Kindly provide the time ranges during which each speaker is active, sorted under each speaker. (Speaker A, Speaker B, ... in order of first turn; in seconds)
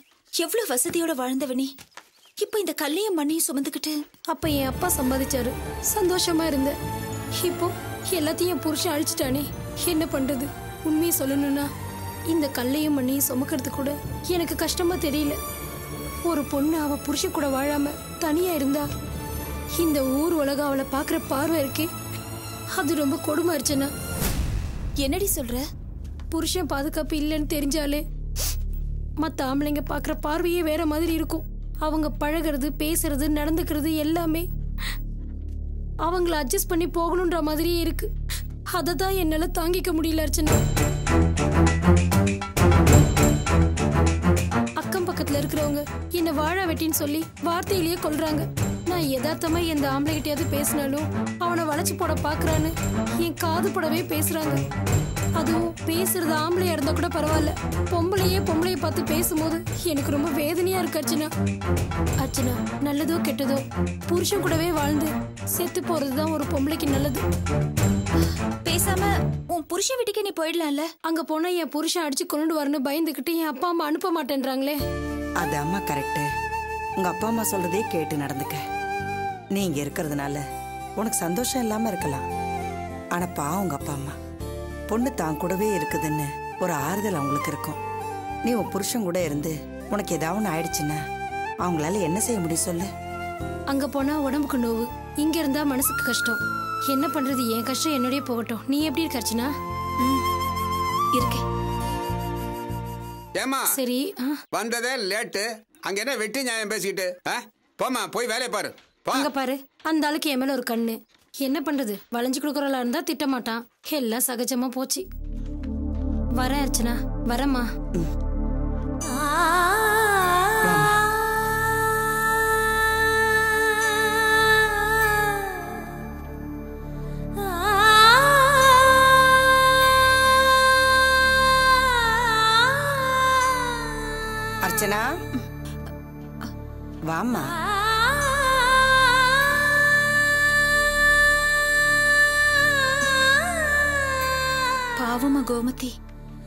Speaker A: 0.4-1.7, 2.4-4.0, 25.0-25.6, 68.7-70.9, 145.0-145.9
Speaker B: 4.3-6.8, 7.4-11.7, 12.3-15.4, 16.2-18.9, 19.8-21.9, 22.8-23.9, 26.3-28.0, 29.2-34.5, 36.0-38.1, 38.7-40.6, 44.8-54.6, 55.4-61.3, 62.2-67.2, 71.0-74.8, 93.7-99.5, 103.7-104.4, 109.1-115.0, 116.4-117.7
Speaker C: 75.4-76.3, 77.0-78.6, 79.5-80.4, 81.0-82.2, 83.1-84.2, 84.9-87.8, 88.5-91.0, 91.6-92.9, 120.6-121.1, 134.6-135.1, 137.1-137.6
Speaker D: 103.4-103.7, 104.5-109.3